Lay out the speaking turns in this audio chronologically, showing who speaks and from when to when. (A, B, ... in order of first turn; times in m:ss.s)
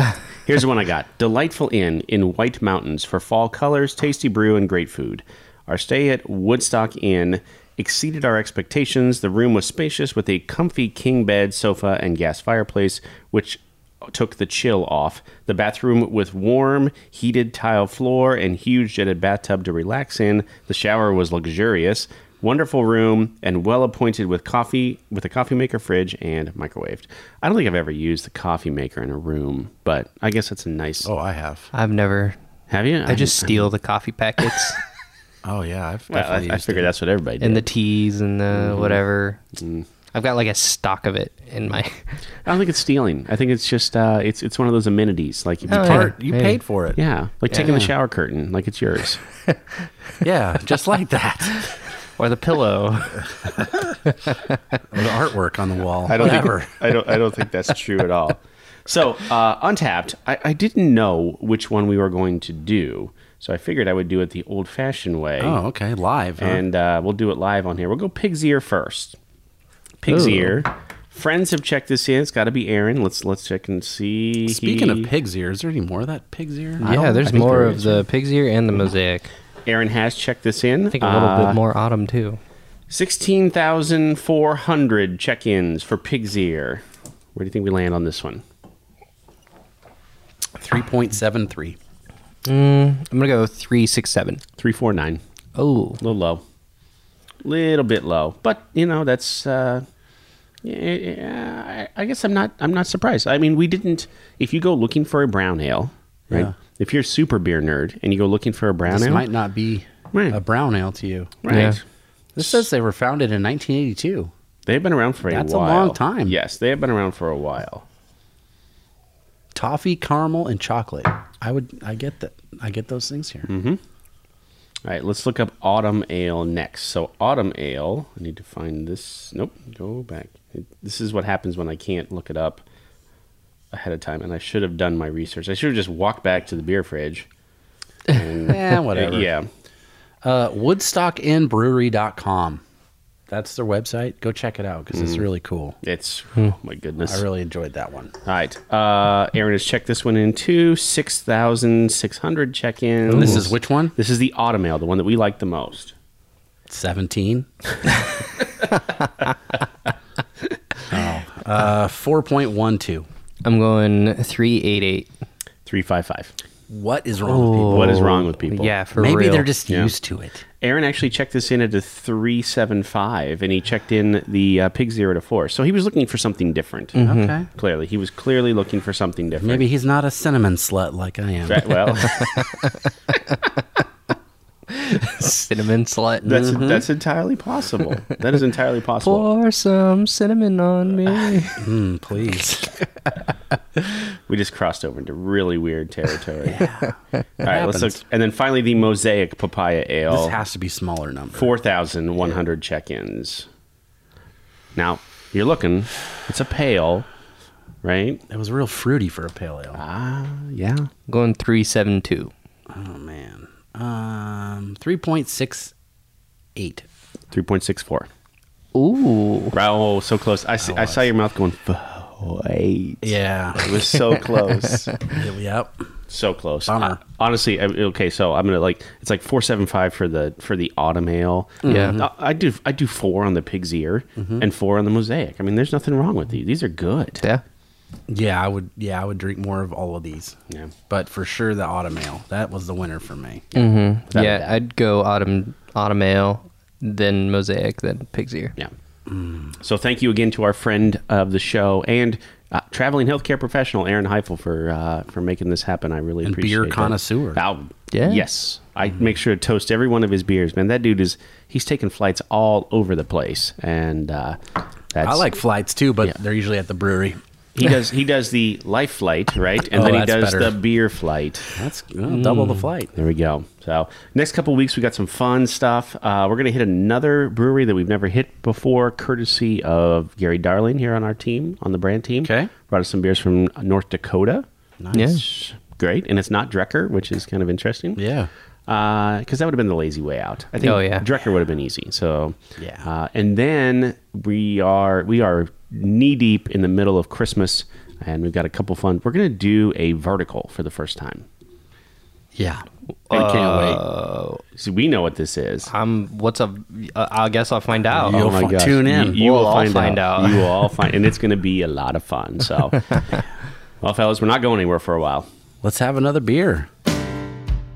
0:00.4-0:31.1 A
0:31.0-0:31.7 B
0:31.7-0:32.4 C
0:32.7-0:33.7 A
0:33.1-0:34.8 C
0:35.4-0:36.9 B
0:36.1-0:37.7 A
0:37.4-0:39.4 C
0:38.5-0:39.0 A
0:39.6-0:39.9 A
0:40.1-0:42.3 C
0:42.4-0:46.1 A
0:45.7-0:47.0 B
0:45.7-0:46.6 C
0:47.0-0:49.2 A
0:47.6-0:47.9 B
0:50.2-0:51.8 B
0:52.2-0:54.4 C
0:53.5-0:53.9 B
0:54.9-0:56.8 B
0:56.1-1:05.6 A
1:05.4-1:06.6 B
1:06.4-1:09.2 A
1:10.0-1:15.1 A
1:10.0-1:10.6 B
1:14.5-1:18.0 B
1:16.8-1:19.3 C
1:17.2-1:17.9 A
1:19.6-1:21.6 A
1:20.9-1:22.4 C
1:22.9-1:28.4 A
1:30.6-1:31.8 B
1:32.4-1:34.4 C
1:34.6-1:35.2 A
1:35.6-1:36.0 C
1:36.0-1:36.4 A
1:37.4-1:39.8 A
1:40.6-1:49.3 A
1:48.9-1:51.4 B
1:50.1-1:50.4 A
1:51.4-1:51.8 A
1:51.5-1:51.8 C
1:52.4-1:54.3 B
1:54.7-1:57.9 A
1:55.3-1:56.4 B
1:59.6-2:03.5 B
2:03.5-2:03.8 A
2:04.8-2:12.6 A
2:13.7-2:17.3 A
2:18.1-2:19.5 A
2:18.5-2:19.3 B
2:20.2-2:22.6 B
2:23.3-2:25.8 B
2:24.9-2:25.2 A
2:25.8-2:27.2 A
2:27.0-2:28.1 B
2:28.2-2:35.9 A
2:33.1-2:34.0 B
2:33.1-2:33.4 C
2:36.7-2:37.5 B
2:40.9-2:43.1 B
2:43.4-2:45.1 C
2:45.7-2:46.3 A
2:46.7-2:48.2 B
2:47.2-2:49.5 C
2:47.7-2:48.7 A
2:49.0-2:50.4 B
2:50.6-2:57.0 A
2:57.0-2:57.3 C
2:57.0-2:57.5 B
2:57.5-2:59.7 A
2:59.4-3:02.2 B
3:01.5-3:02.5 A
3:02.2-3:02.8 C
3:04.7-3:06.8 C
3:06.2-3:09.3 A
3:06.3-3:06.6 B
3:09.0-3:11.6 C
3:11.6-3:12.7 B
3:14.3-3:16.7 A
3:16.5-3:18.0 B
3:17.4-3:20.4 A
3:20.1-3:21.5 B
3:21.3-3:23.5 A
3:24.8-3:27.1 A
3:27.8-3:28.2 A
3:28.3-3:29.8 B
3:29.7-3:30.9 A
3:31.1-3:32.3 C
3:32.7-3:35.7 B
3:36.6-3:36.9 B
3:37.3-3:38.1 A
3:38.7-3:39.6 C
3:39.5-3:44.9 A
3:40.6-3:41.0 B
3:43.0-3:44.2 B
3:45.1-3:45.9 B
3:46.1-3:57.2 A
3:46.7-3:47.0 B
3:51.6-3:52.0 B
3:51.6-3:52.0 C
3:54.2-3:54.4 B
3:58.1-4:00.4 B
4:00.9-4:03.5 B
4:03.5-4:04.6 A
4:03.6-4:08.6 C
4:09.1-4:09.6 B
4:09.6-4:24.4 A
4:16.2-4:17.4 B
4:17.9-4:18.3 C
4:24.9-4:25.3 A
4:25.0-4:27.2 B
4:27.6-4:31.5 A
4:29.7-4:30.6 B
4:31.6-4:32.9 B
4:32.1-4:32.7 C
4:33.0-4:44.5 A
4:42.2-4:42.5 B
4:44.8-4:45.2 B
4:44.9-4:45.2 C
4:45.0-4:48.0 A
4:48.0-4:48.3 B
4:48.7-5:01.3 A
4:50.6-4:51.1 C
4:52.6-4:52.9 B
5:02.4-5:03.8 B
5:03.1-5:04.4 C
5:04.6-5:05.7 A
5:05.7-5:08.3 C
5:08.0-5:12.8 A
5:08.0-5:09.2 B
5:09.0-5:10.7 C
5:13.8-5:15.3 A
5:15.6-5:16.7 B